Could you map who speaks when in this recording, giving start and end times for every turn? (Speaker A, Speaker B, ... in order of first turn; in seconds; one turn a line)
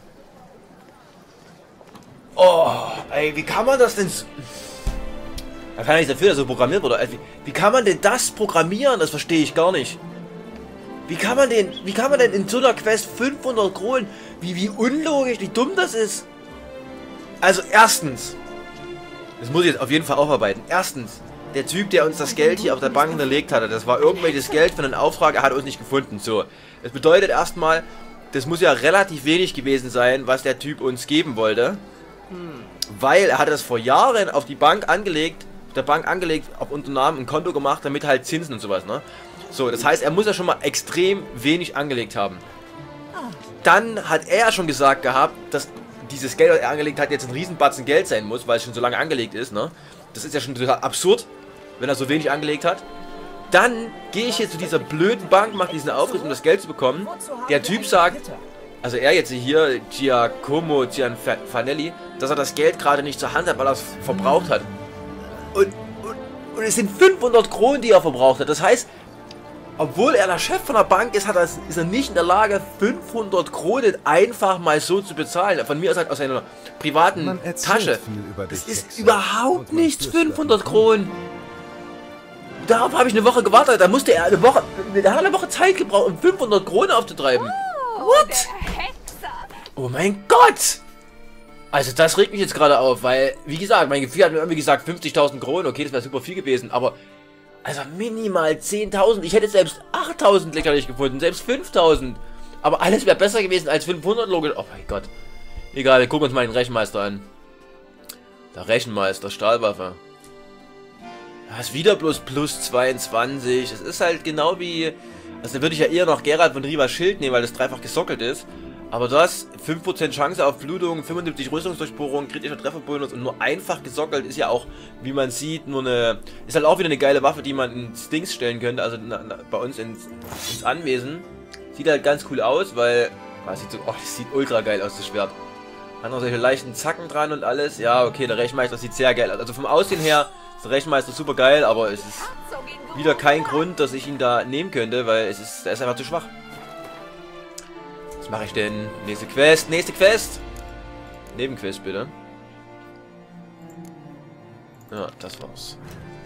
Speaker A: 2.3-4.7
Speaker A: 5.8-10.0
Speaker A: 11.1-16.3
Speaker A: 17.4-18.4
Speaker A: 19.4-31.8
Speaker B: 22.4-23.2
Speaker A: 32.7-42.4
Speaker A: 43.6-52.8
Speaker A: 53.5-58.2
Speaker A: 58.8-64.7
Speaker A: 65.5-68.9
Speaker A: 69.8-81.2
Speaker A: 82.6-88.5
Speaker B: 87.3-89.5
Speaker A: 89.7-90.8
Speaker A: 91.7-97.0
Speaker A: 97.6-105.1
Speaker A: 105.7-107.3
Speaker A: 108.5-110.0
Speaker A: 111.5-135.3
Speaker A: 136.0-142.3
Speaker B: 142.1-143.7
Speaker A: 142.9-146.3
Speaker A: 148.2-150.4
Speaker A: 151.3-152.1
Speaker A: 154.9-155.8